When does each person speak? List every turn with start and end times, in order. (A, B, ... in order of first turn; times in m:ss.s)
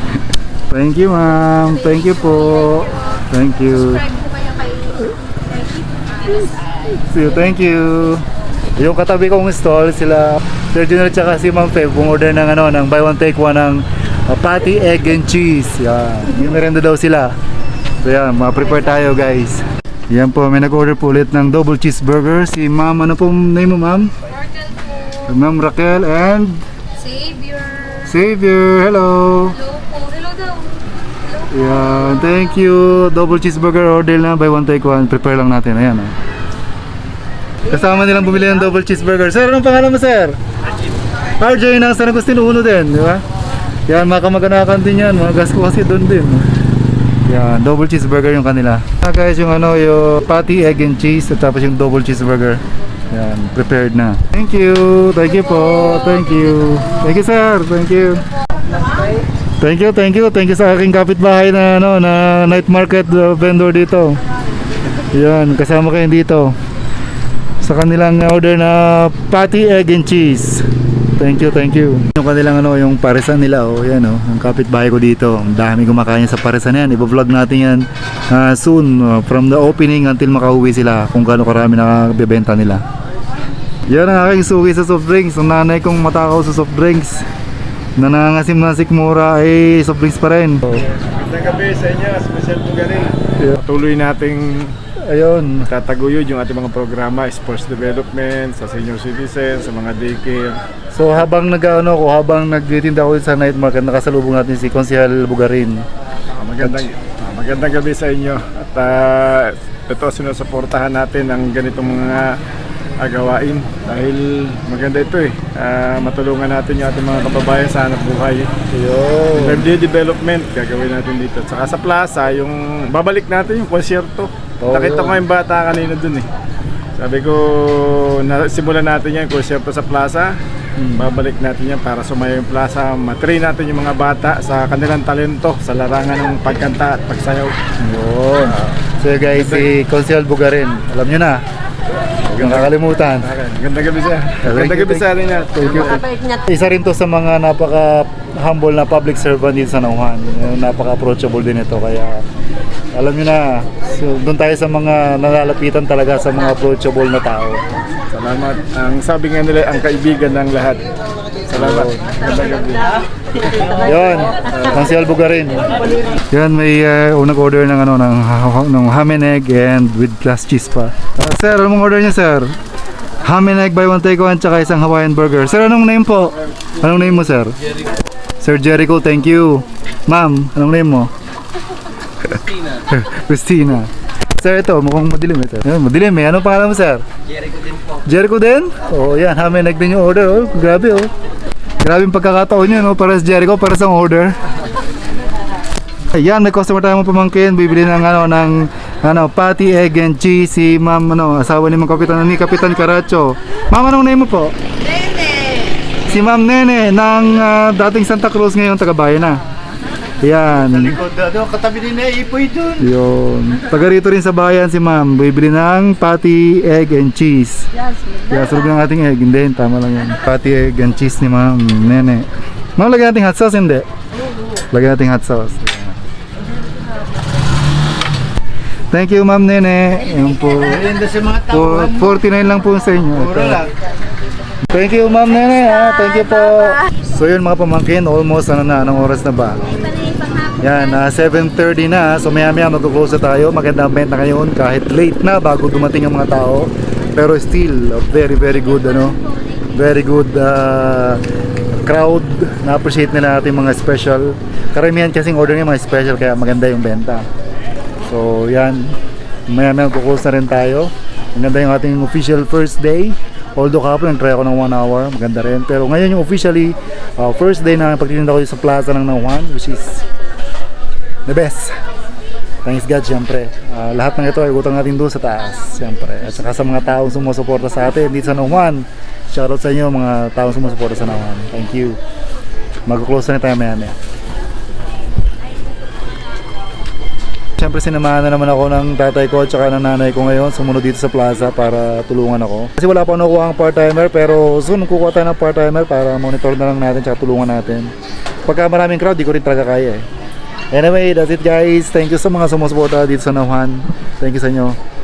0:00.7-0:04.2 A
0:04.4-0:04.7 B
0:06.8-0:17.3 A
0:18.0-0:24.1 A
0:25.2-0:26.6 A
0:27.1-0:27.8 B
0:27.9-0:29.7 A
0:29.8-0:30.6 B
0:31.4-0:36.1 A
0:37.6-0:40.4 A
0:41.4-0:43.2 A
0:43.9-0:46.5 A
0:47.2-0:58.2 A
0:59.6-1:04.2 A
1:05.1-1:06.6 A
1:07.6-1:22.8 A
1:23.9-1:27.2 A
1:28.0-1:30.8 A
1:31.0-1:34.7 C
1:35.0-1:35.7 A
1:35.7-1:40.6 C
1:40.9-1:45.8 A
1:46.4-1:52.3 C
1:46.6-1:46.9 A
1:53.0-1:58.5 C
1:58.7-1:59.6 A
1:59.3-2:06.3 C
2:04.6-2:05.2 A
2:07.0-2:10.3 C
2:10.8-2:11.1 A
2:11.0-2:17.5 C
2:17.8-2:21.4 A
2:22.3-2:23.3 A
2:22.3-2:26.1 C
2:24.4-2:32.2 A
2:32.9-2:37.6 A
2:38.1-2:40.8 C
2:41.5-2:43.0 C
2:41.5-2:42.1 A
2:43.8-2:45.7 A
2:46.3-2:52.5 A
2:53.2-2:57.5 A
2:58.4-3:01.1 A
3:02.2-3:07.0 A
3:08.0-3:11.1 A
3:11.8-3:14.3 A
3:16.1-3:24.5 A
3:26.0-3:29.4 A
3:30.2-3:37.7 A
3:38.3-3:43.8 A
3:44.7-3:46.0 A
3:48.9-3:53.7 A
3:54.6-3:59.8 A
4:00.5-4:11.2 A
4:11.8-4:17.2 A
4:18.0-4:19.0 A
4:19.5-4:30.0 A
4:31.2-4:31.8 A
4:32.6-4:42.0 A
4:42.9-4:43.9 A
4:47.6-4:57.9 A
4:58.4-5:00.0 A
5:00.7-5:04.8 A